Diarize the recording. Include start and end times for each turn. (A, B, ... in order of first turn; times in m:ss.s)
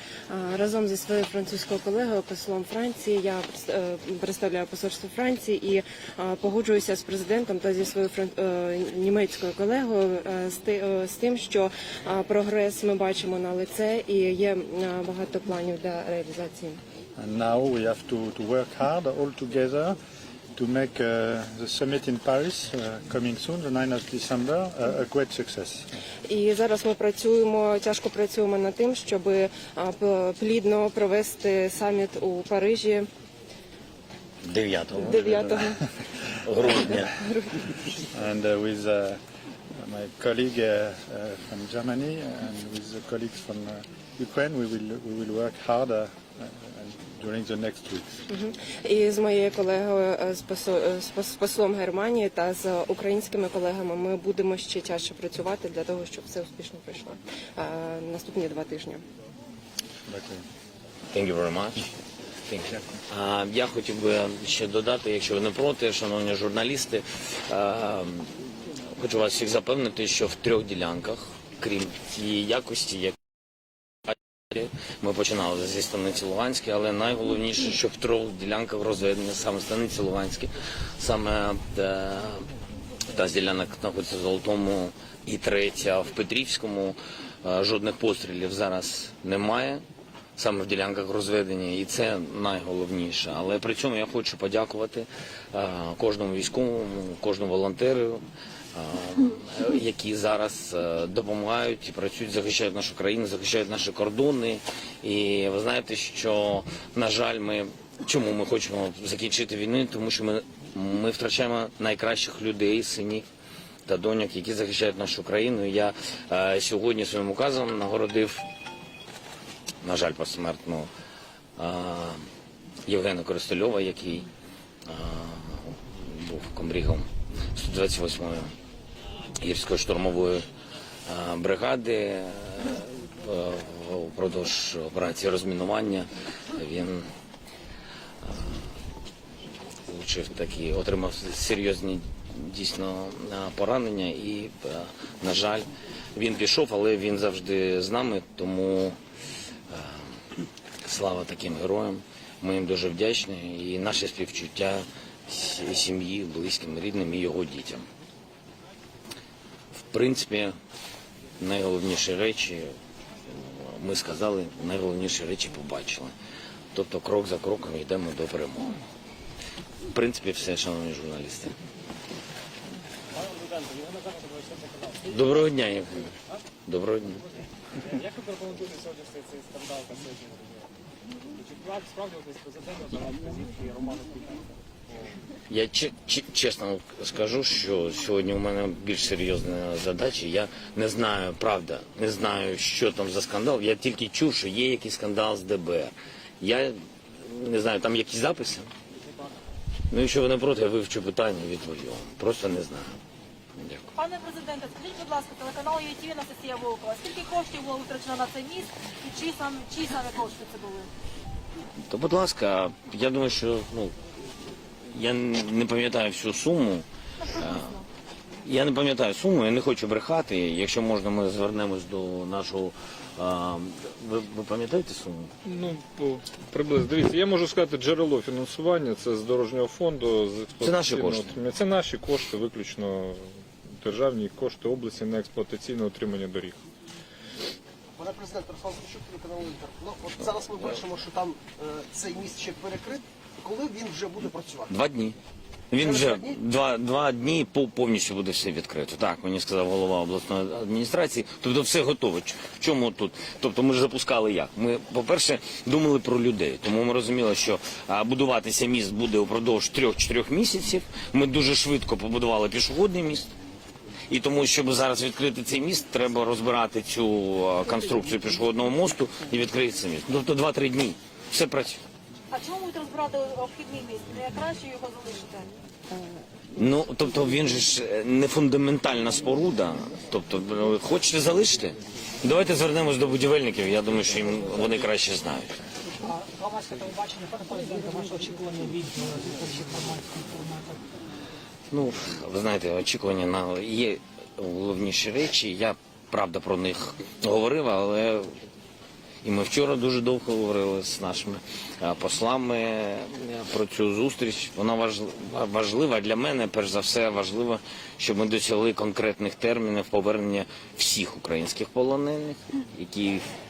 0:00.3-0:16.8 A
0:17.2-0:20.0 B
0:20.5-0:25.9 B
0:26.3-0:33.1 A
0:34.4-0:35.6 C
0:35.0-0:35.8 A
0:35.2-0:35.6 B
0:36.4-0:37.1 C
0:36.6-0:37.9 A
0:38.1-0:39.2 B
0:39.8-0:48.2 B
0:48.3-0:59.0 A
1:00.1-1:00.4 B
1:01.1-1:01.9 C
1:02.5-1:08.3 C
1:09.0-1:13.2 C
1:14.1-1:22.4 C
1:23.1-1:29.8 C
1:30.4-1:38.2 C
1:38.8-1:53.3 C
1:53.9-1:58.4 C
1:59.8-2:00.9 C
2:01.6-2:02.2 C
2:02.9-2:04.3 C
2:04.9-2:08.5 C
2:09.4-2:10.5 C
2:11.1-2:17.0 C
2:18.2-2:18.6 C
2:19.9-2:29.0 C
2:29.7-2:30.1 C
2:30.8-2:37.9 C
2:39.8-2:40.5 C
2:41.4-2:42.7 C
2:43.3-2:46.1 C
2:46.7-2:48.8 C
2:49.9-2:51.6 C
2:53.2-2:55.0 D
2:55.1-2:56.1 C
2:56.7-2:57.2 C
2:57.8-3:00.7 D
3:01.4-3:04.5 D
3:05.5-3:18.7 C
3:19.9-3:23.0 C
3:23.6-3:23.9 C
3:23.9-3:30.9 E
3:31.9-3:33.9 C
3:34.9-3:37.7 C
3:37.2-3:37.9 E
3:38.4-3:45.3 C
3:45.5-3:53.2 F
3:50.6-3:51.3 C
3:53.8-3:56.6 F
3:58.0-4:04.8 G
4:04.7-4:05.2 C
4:05.7-4:23.3 C
4:05.8-4:06.4 G
4:24.1-4:31.8 C
4:32.3-4:35.5 E
4:36.6-4:45.6 C
4:46.0-4:50.8 H
4:51.7-4:58.3 C
4:59.2-5:13.2 C